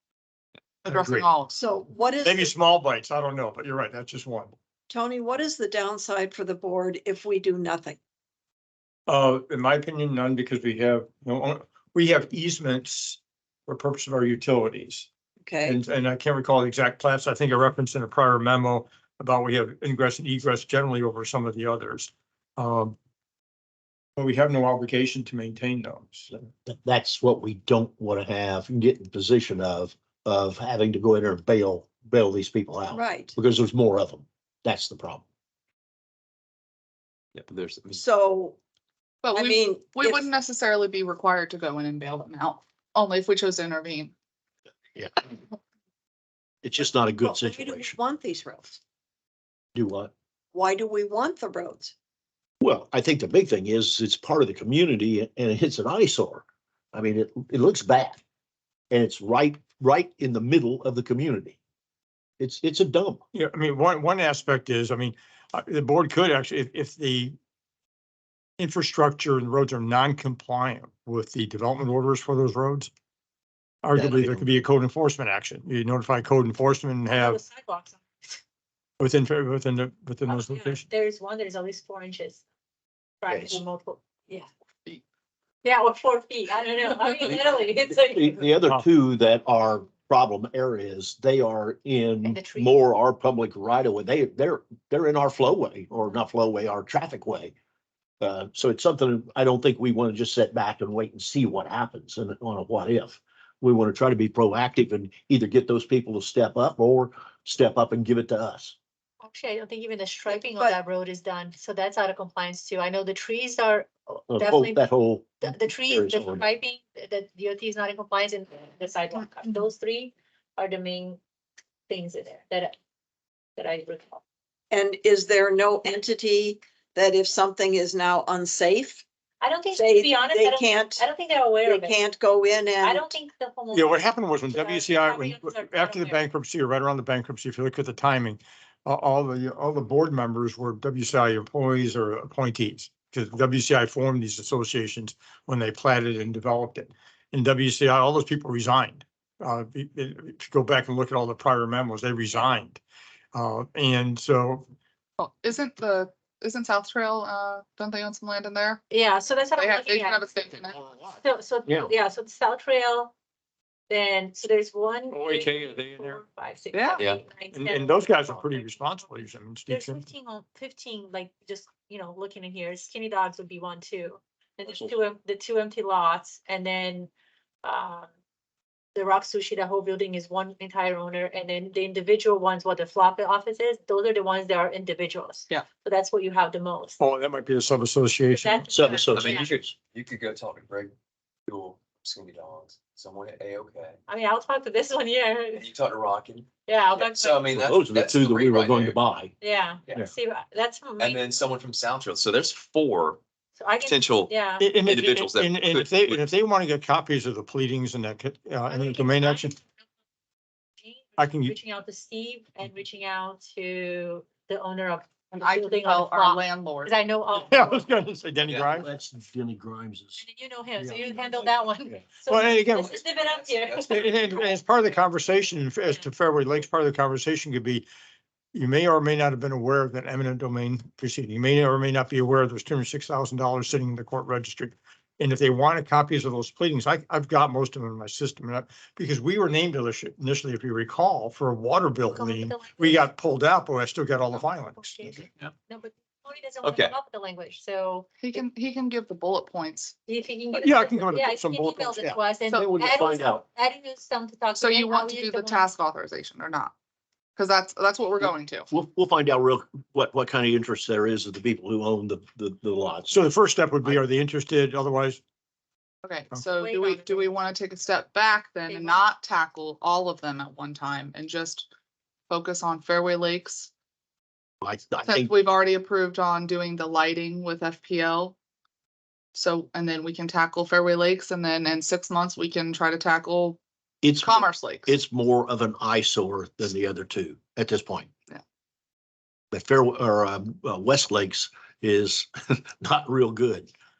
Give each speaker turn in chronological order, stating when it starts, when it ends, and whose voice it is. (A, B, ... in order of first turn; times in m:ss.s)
0:00.8-0:01.6 A
0:00.9-0:01.3 B
0:01.5-0:02.6 C
0:02.2-0:04.5 B
0:04.9-0:08.0 C
0:09.1-0:15.1 B
0:15.4-0:15.8 C
0:15.6-0:22.9 B
0:24.2-0:26.3 B
0:26.7-0:35.2 D
0:32.9-0:33.4 C
0:37.4-0:38.0 E
0:37.9-0:38.6 C
0:39.2-0:44.1 A
0:39.3-0:40.3 C
0:46.6-0:48.0 D
0:47.2-0:48.8 C
0:49.8-0:50.1 D
0:50.5-0:51.9 C
0:52.6-0:58.2 D
0:58.9-1:01.6 D
1:02.4-1:03.2 D
1:03.3-1:07.4 B
1:08.6-1:12.9 B
1:13.8-1:17.4 B
1:14.0-1:14.6 D
1:17.2-1:18.0 F
1:19.0-1:20.9 B
1:20.3-1:22.4 F
1:23.2-1:24.5 F
1:23.3-1:23.6 D
1:25.6-1:28.5 F
1:28.1-1:37.5 D
1:32.2-1:32.8 F
1:38.2-1:48.8 D
1:49.2-1:54.8 F
1:50.3-1:50.8 C
1:54.3-1:56.5 D
1:55.4-2:01.2 F
2:01.9-2:02.7 F
2:03.6-2:04.2 F
2:04.7-2:09.0 C
2:09.4-2:12.2 F
2:09.7-2:11.1 C
2:11.6-2:13.1 C
2:12.8-2:16.3 F
2:13.7-2:32.8 B
2:33.3-2:34.6 B
2:35.2-2:38.8 A
2:38.9-2:40.3 F
2:39.6-2:40.8 A
2:41.2-2:43.1 F
2:43.9-2:49.1 F
2:45.1-2:46.2 B
2:46.7-2:47.0 A
2:47.5-2:50.0 B
2:49.7-2:57.1 F
2:57.6-2:58.1 F
2:59.0-3:07.0 F
3:07.0-3:08.7 B
3:08.3-3:09.5 F
3:08.7-3:09.7 D
3:09.1-3:10.9 E
3:11.5-3:14.0 E
3:14.1-3:15.7 F
3:15.5-3:19.0 E
3:16.7-3:17.5 F
3:17.5-3:19.3 D
3:19.4-3:21.2 F
3:21.0-3:23.2 E
3:23.6-3:24.7 F
3:23.8-3:26.2 E
3:24.6-3:29.6 B
3:28.7-3:29.5 F
3:30.8-3:37.9 F
3:31.2-3:31.6 B
3:35.3-3:37.0 A
3:37.5-3:38.9 B
3:38.4-3:38.9 E
3:38.7-3:40.2 D
3:40.2-3:44.0 F
3:40.8-3:42.0 D
3:42.3-3:43.0 B
3:42.9-3:44.5 E
3:43.9-3:47.8 B
3:48.5-4:05.2 B
4:02.1-4:03.1 F
4:04.3-4:08.4 F
4:06.6-4:07.0 E
4:08.2-4:09.9 A
4:10.1-4:15.7 F
4:10.5-4:12.2 B
4:12.5-4:13.4 D
4:14.5-4:16.7 A
4:17.4-4:18.7 A
4:18.7-4:23.2 D
4:23.1-4:25.2 B
4:26.0-4:31.7 A
4:26.5-4:27.4 F
4:28.7-4:29.1 F
4:32.3-4:33.7 A
4:34.6-4:35.3 D
4:35.0-4:38.4 A
4:39.3-4:43.6 A
4:44.0-4:48.1 D
4:44.2-4:44.9 A
4:49.5-4:53.7 D